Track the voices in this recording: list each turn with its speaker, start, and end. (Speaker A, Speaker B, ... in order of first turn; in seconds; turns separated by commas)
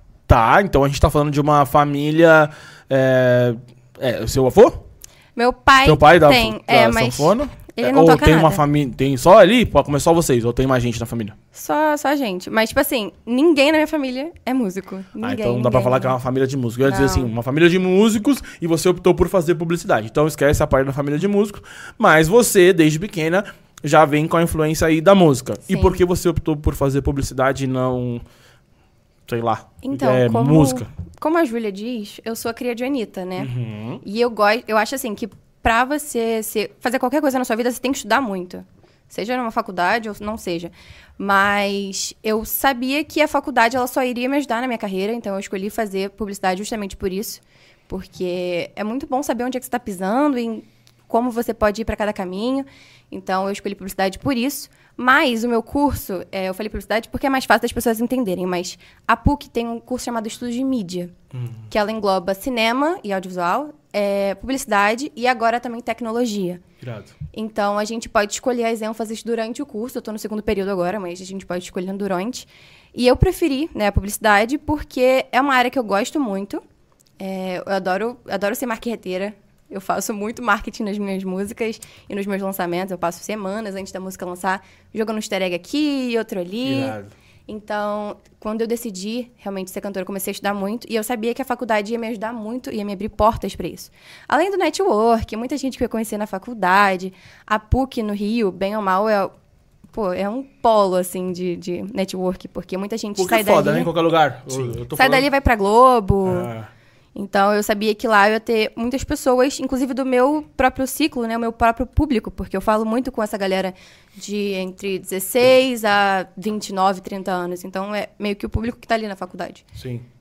Speaker A: 0.3-4.8, Speaker B: 5.3-8.6, Speaker A: 5.8-11.3, Speaker B: 11.5-16.1, Speaker A: 15.2-28.2, Speaker B: 16.8-17.3, Speaker B: 25.7-26.0, Speaker A: 29.3-30.9, Speaker B: 29.8-33.5, Speaker A: 33.4-34.0, Speaker B: 34.0-61.1, Speaker A: 61.3-61.7, Speaker B: 61.7-66.6, Speaker A: 66.8-67.1, Speaker B: 67.3-76.6, Speaker B: 77.2-87.0, Speaker A: 86.6-87.1, Speaker B: 87.5-99.3, Speaker B: 99.9-103.9, Speaker A: 103.2-105.3, Speaker B: 104.9-106.5, Speaker A: 106.2-106.7, Speaker B: 107.1-119.6, Speaker A: 119.8-120.0